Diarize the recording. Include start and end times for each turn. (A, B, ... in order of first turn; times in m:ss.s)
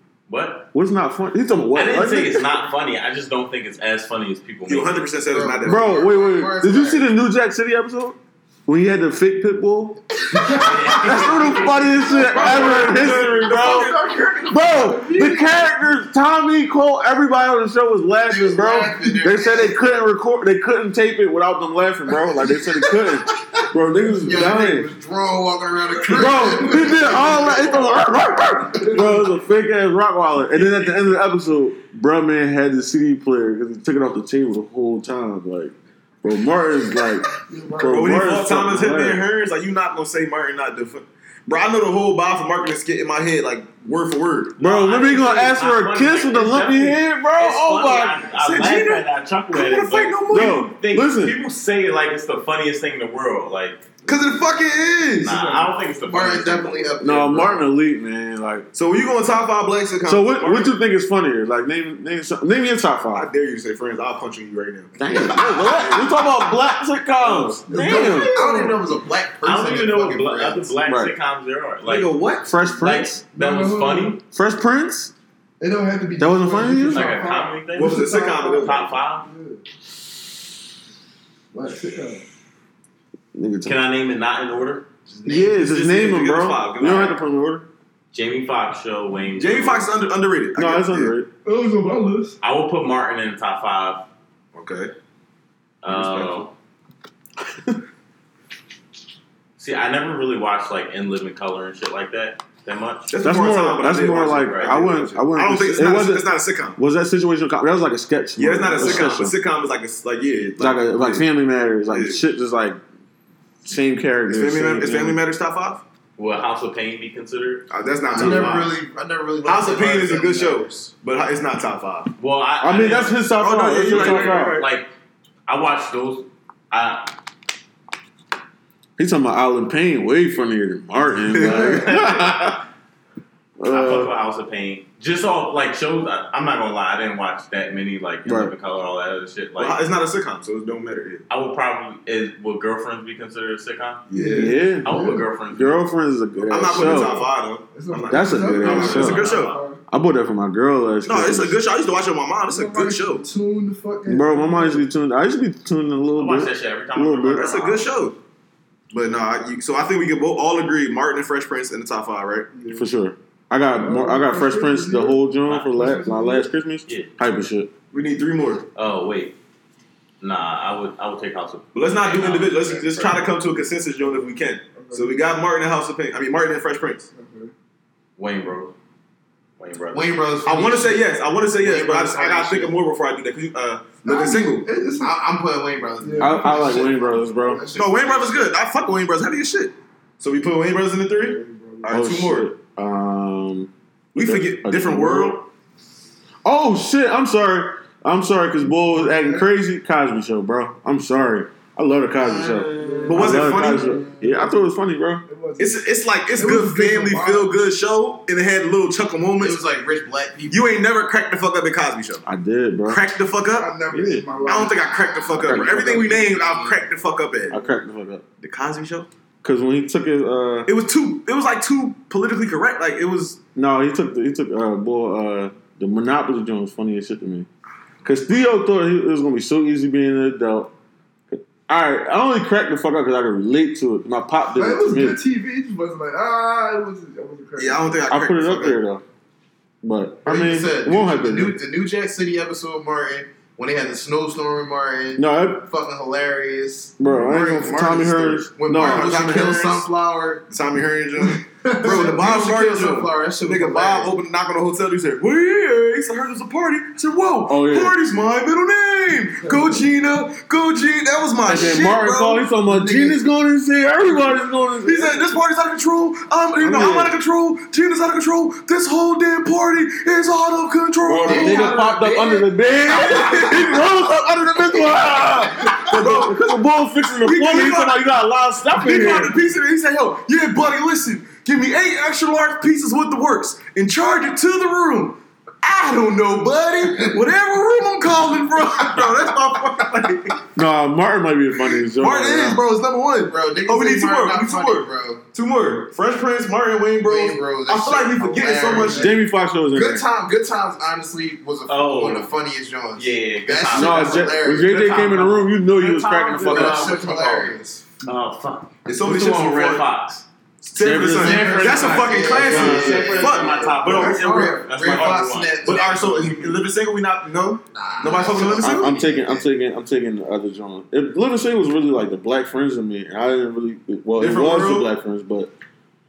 0:00.3-0:00.7 A
0:00.7-0:02.6 B
0:01.7-0:05.0 A
0:04.7-0:06.0 C
0:05.3-0:07.1 D
0:05.6-0:14.0 B
0:10.3-0:11.4 D
0:10.5-0:11.0 E
0:10.6-0:12.0 A
0:12.1-0:14.2 C
0:12.1-0:15.7 E
0:14.5-0:24.9 B
0:18.3-0:20.1 D
0:22.9-0:23.5 D
0:24.2-0:27.8 D
0:26.1-0:39.2 B
0:26.3-0:27.2 E
0:28.8-0:29.2 E
0:37.4-0:38.2 E
0:37.8-0:44.6 C
0:44.6-0:48.2 B
0:44.6-0:54.0 A
0:48.4-0:50.7 C
0:50.3-0:51.4 B
0:54.0-0:55.6 C
0:55.2-0:57.0 A
0:55.2-0:55.7 E
0:56.1-0:57.6 D
0:57.0-0:58.7 B
0:58.7-1:00.7 C
1:00.0-1:03.3 B
1:03.1-1:06.0 C
1:05.0-1:08.5 B
1:05.3-1:06.0 D
1:07.2-1:07.6 C
1:07.7-1:08.8 E
1:07.7-1:10.7 D
1:09.4-1:14.2 A
1:10.9-1:11.1 B
1:11.8-1:12.5 C
1:12.4-1:13.2 B
1:13.4-1:14.2 E
1:14.3-1:15.1 B
1:15.6-1:18.7 E
1:16.2-1:17.2 B
1:16.9-1:19.3 A
1:17.7-1:19.0 C
1:19.2-1:19.6 E
1:21.5-1:22.2 E
1:23.3-1:23.8 B
1:23.6-1:24.8 A
1:25.1-1:25.6 D
1:25.3-1:27.7 B
1:25.5-1:27.2 C
1:28.1-1:29.9 A
1:29.4-1:31.2 C
1:30.6-1:31.3 B
1:31.4-1:32.4 E
1:32.4-1:34.1 A
1:34.5-1:34.9 C
1:35.8-1:36.5 A
1:35.9-1:36.5 C
1:39.6-1:43.1 A
1:43.1-1:46.8 C
1:43.2-1:49.4 B
1:44.0-1:44.8 A
1:48.4-1:51.3 C
1:48.7-1:49.3 A
1:50.6-1:52.8 B
1:51.9-1:52.2 C
1:53.6-1:55.2 B
1:54.3-1:55.8 C
1:56.2-1:58.6 A
1:57.7-1:58.7 C
1:58.1-2:00.8 D
1:59.4-2:02.2 C
2:02.2-2:04.9 A
2:02.6-2:04.6 B
2:03.4-2:04.7 C
2:05.5-2:07.1 A
2:09.0-2:12.6 B
2:11.2-2:12.1 C
2:11.4-2:11.8 E
2:13.6-2:14.1 B
2:13.7-2:19.8 A
2:18.2-2:18.5 B
2:19.6-2:21.3 C
2:21.3-2:24.0 A
2:24.1-2:24.5 C
2:24.1-2:25.3 E
2:24.3-2:24.9 B
2:24.7-2:25.8 A
2:25.5-2:27.2 B
2:26.4-2:29.8 E
2:26.5-2:29.6 C
2:28.1-2:29.3 B
2:28.6-2:29.6 A
2:29.9-2:31.6 B
2:31.0-2:33.2 C
2:32.5-2:34.8 E
2:34.1-2:37.5 B
2:36.1-2:37.9 A
2:37.4-2:38.2 C
2:38.9-2:42.5 C
2:42.5-2:42.8 E
2:42.7-2:47.7 B
2:43.8-2:46.5 E
2:47.9-2:48.7 C
2:48.8-2:49.4 A
2:50.2-2:53.2 A
2:51.8-2:57.1 C
2:54.7-2:55.1 E
2:57.1-2:57.5 E
2:58.2-2:58.8 A
2:59.6-3:00.2 A
2:59.9-3:01.0 D
3:00.5-3:04.7 C
3:01.6-3:02.8 D
3:04.0-3:05.1 E
3:05.0-3:08.5 D
3:06.0-3:06.9 E
3:06.2-3:07.6 B
3:07.7-3:12.5 C
3:11.2-3:11.9 E
3:11.9-3:15.4 B
3:14.1-3:15.5 C
3:16.4-3:25.2 B
3:18.9-3:19.5 E
3:22.2-3:23.9 D
3:22.8-3:24.5 E
3:23.1-3:24.0 C
3:25.3-3:27.6 E
3:25.6-3:29.6 C
3:29.4-3:30.7 D
3:30.5-3:32.2 C
3:32.2-3:33.0 B
3:32.8-3:33.7 C
3:33.6-3:35.0 E
3:33.9-3:34.4 B
3:34.4-3:37.6 C
3:34.5-3:36.8 D
3:35.4-3:36.0 B
3:37.5-3:38.2 B
3:38.4-3:39.1 C
3:39.4-3:40.7 B
3:40.7-3:43.4 C
3:43.6-3:47.5 B
3:48.0-3:50.7 B
3:51.3-3:55.2 B
3:54.6-3:58.0 E
3:57.6-3:58.8 C
3:58.1-3:59.0 B
3:59.8-4:01.6 B
4:00.3-4:10.4 D
4:05.2-4:05.6 B
4:07.0-4:09.8 B
4:08.8-4:09.7 C
4:10.5-4:22.4 C
4:11.2-4:11.8 E
4:11.8-4:14.2 D
4:17.5-4:17.9 B
4:21.4-4:25.4 B
4:22.6-4:23.2 D
4:24.8-4:31.7 C
4:26.6-4:27.1 B
4:31.1-4:39.4 B
4:31.2-4:34.0 D
4:34.8-4:35.0 D
4:35.6-4:36.1 D
4:35.9-4:36.6 C
4:37.1-4:38.0 C
4:38.7-4:50.4 C
4:46.8-4:47.3 D
4:48.9-4:49.1 D
4:50.6-4:52.6 B
4:51.9-4:59.1 C
4:53.2-4:55.2 D
4:57.0-4:59.2 D
4:58.5-4:59.1 E
4:58.9-5:00.0 B
4:59.7-5:04.7 D
5:01.7-5:02.3 A
5:03.0-5:10.2 A
5:03.7-5:07.1 B
5:06.5-5:07.8 D
5:08.9-5:09.9 C
5:10.6-5:15.0 C
5:10.8-5:11.7 B
5:10.9-5:16.7 A
5:11.2-5:15.9 D
5:12.4-5:13.0 B
5:15.6-5:19.1 C
5:17.7-5:19.5 D
5:18.4-5:25.5 B
5:24.2-5:24.9 C